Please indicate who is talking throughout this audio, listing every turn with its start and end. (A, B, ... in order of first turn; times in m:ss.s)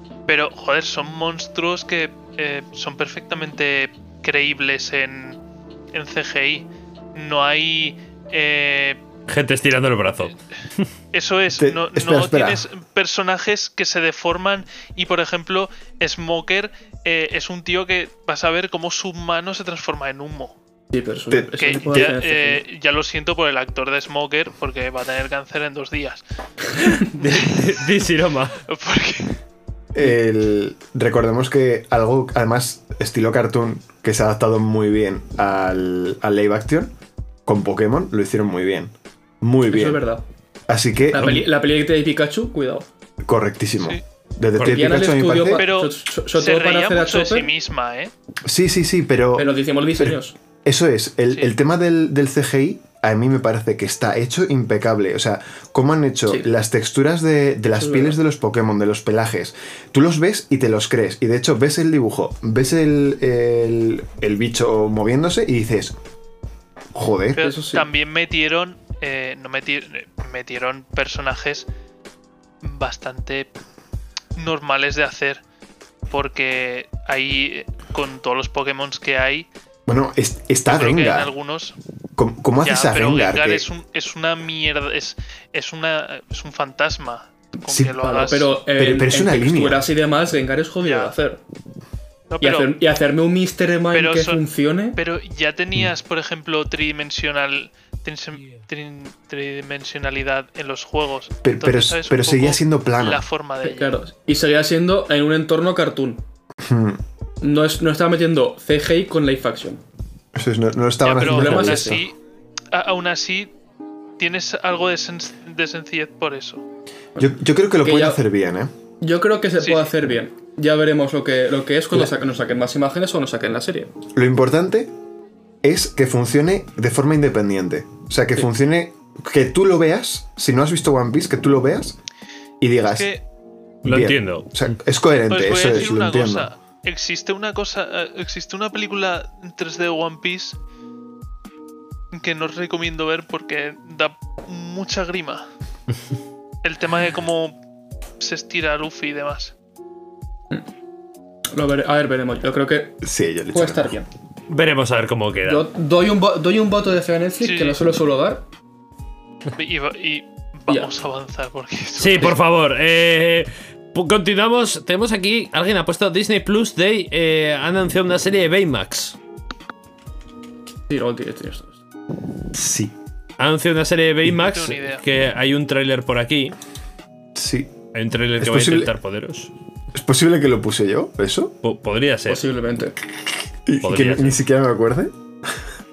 0:00.3-0:05.4 A
0:05.9-0:09.0 A
0:09.3-0:10.9 B
0:11.1-0:20.6 A
0:11.6-0:12.7 C
0:20.9-0:22.6 D
0:21.3-0:22.1 C
0:21.6-0:26.2 A
0:26.8-0:28.6 B
0:27.0-0:27.9 A
0:28.6-0:29.4 A
0:29.9-0:36.9 C
0:37.5-0:40.0 C
0:39.7-0:40.2 D
0:40.7-0:41.5 C
0:41.1-0:42.9 D
0:43.2-0:45.7 C
0:44.6-0:44.9 B
0:44.6-0:47.5 D
0:45.6-0:48.1 A
0:48.4-1:06.0 C
0:49.4-0:50.4 D
0:56.3-0:56.6 D
0:57.8-0:58.2 D
1:06.9-1:07.5 C
1:07.4-1:11.7 A
1:07.4-1:07.9 D
1:12.6-1:13.5 A
1:14.4-1:15.4 A
1:16.1-1:19.5 A
1:19.9-1:21.3 C
1:20.7-1:21.8 A
1:22.2-1:23.7 C
1:22.6-1:28.6 A
1:27.7-1:28.0 C
1:27.9-1:31.4 D
1:28.8-1:29.8 C
1:30.8-1:31.2 A
1:32.3-1:32.7 A
1:32.4-1:35.0 D
1:33.9-1:34.4 A
1:35.0-1:44.0 A
1:41.4-1:43.2 C
1:43.6-1:46.2 D
1:46.6-1:47.0 C
1:47.4-1:49.8 D
1:50.4-1:52.0 C
1:51.0-1:52.2 A
1:51.2-1:52.0 D
1:52.7-1:53.5 A
1:54.2-1:56.6 A
1:57.2-1:58.7 C
1:57.8-1:58.2 D
1:59.0-2:03.9 D
1:59.6-1:59.9 A
2:04.2-2:04.9 C
2:05.6-2:12.0 C
2:12.6-2:13.1 C
2:12.8-2:13.2 A
2:13.8-2:14.5 B
2:13.8-2:16.5 C
2:15.3-2:20.6 A
2:22.1-2:25.5 A
2:26.6-2:27.6 A
2:28.2-2:29.6 A
2:31.5-2:34.1 D
2:33.0-2:34.0 C
2:34.5-2:35.7 B
2:35.5-2:38.4 D
2:37.4-2:37.8 A
2:39.6-2:42.4 A
2:42.0-2:49.2 B
2:50.9-2:51.8 D
2:52.5-2:52.9 C
2:53.4-2:56.6 B
2:54.4-2:55.0 A
2:57.4-2:57.7 C
2:57.9-2:59.5 B
2:58.4-2:58.9 C
2:59.9-3:01.6 C
3:01.6-3:02.4 B
3:02.3-3:03.0 D
3:03.7-3:05.1 C
3:03.8-3:04.4 B